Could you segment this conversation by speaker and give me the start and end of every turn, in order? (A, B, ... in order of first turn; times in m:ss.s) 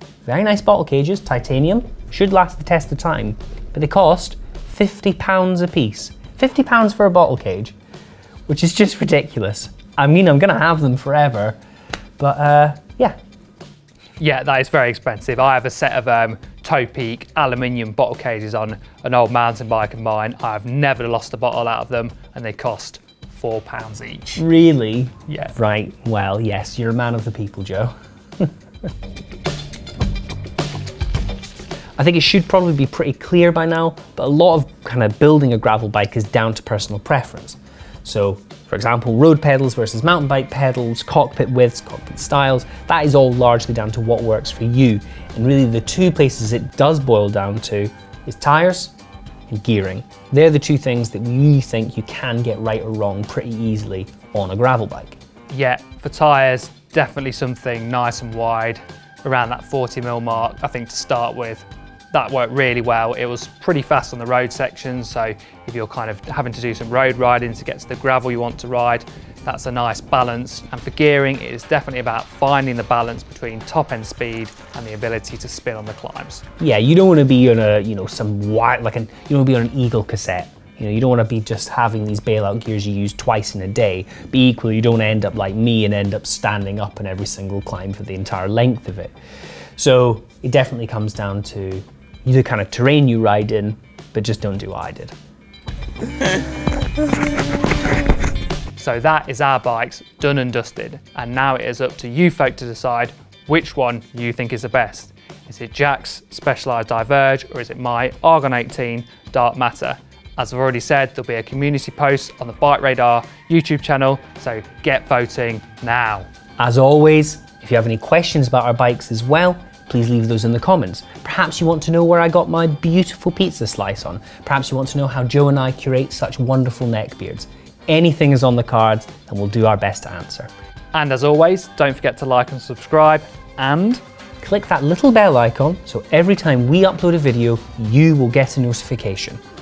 0:00.2-0:07.7 A
0:08.5-0:11.6 A
0:12.2-0:13.2 A
0:14.2-0:24.4 B
0:24.4-0:28.5 A
0:25.3-0:25.5 B
0:32.0-0:48.9 A
0:49.5-0:55.2 A
0:55.5-1:16.4 B
1:16.6-1:29.1 A
1:29.8-1:35.1 A
1:38.8-1:56.3 B
1:56.6-2:10.5 A
2:10.9-2:14.0 B
2:14.4-2:19.4 A